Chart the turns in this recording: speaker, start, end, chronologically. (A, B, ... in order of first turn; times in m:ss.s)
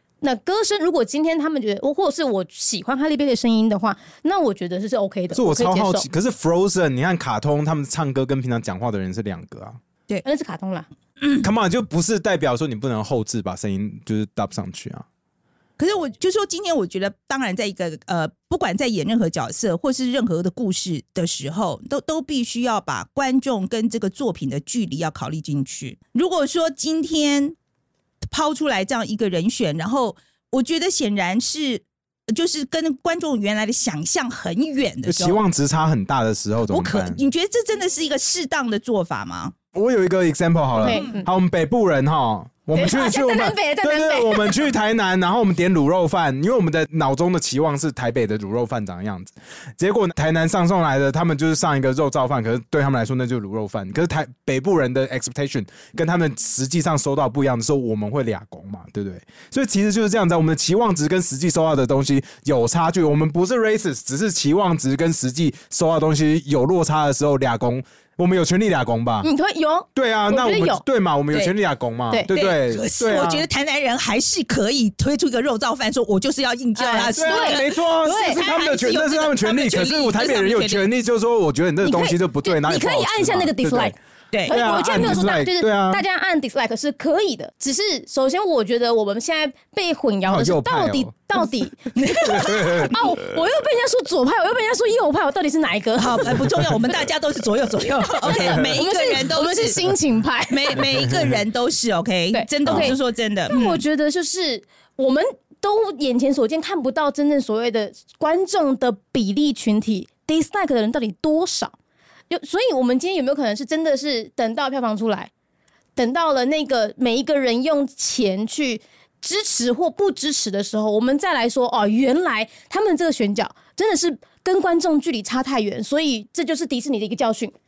0:00.2-0:06.1 A
0:05.3-0:09.8 B
0:10.2-0:10.9 A
0:11.4-0:15.0 B
0:15.8-0:27.6 C
0:28.3-0:35.4 C
0:35.0-0:37.2 B
0:36.7-0:39.5 C
0:39.7-1:09.3 B
0:40.8-0:41.3 A
0:40.8-0:41.2 C
0:42.7-0:44.6 A
1:09.2-1:11.5 A
1:09.9-1:13.5 B
1:12.3-1:20.8 C
1:16.8-1:18.4 A
1:17.1-1:23.9 B
1:21.8-1:23.9 A
1:24.3-1:24.6 C
1:24.4-1:26.0 B
1:24.5-1:36.5 A
1:30.3-1:31.1 B
1:32.2-1:33.1 B
1:36.0-1:39.8 C
1:38.2-1:40.9 A
1:38.2-1:38.8 B
1:40.5-1:43.8 C
1:42.3-1:51.7 A
1:42.6-1:42.9 B
1:52.3-1:55.3 A
1:56.0-2:07.5 A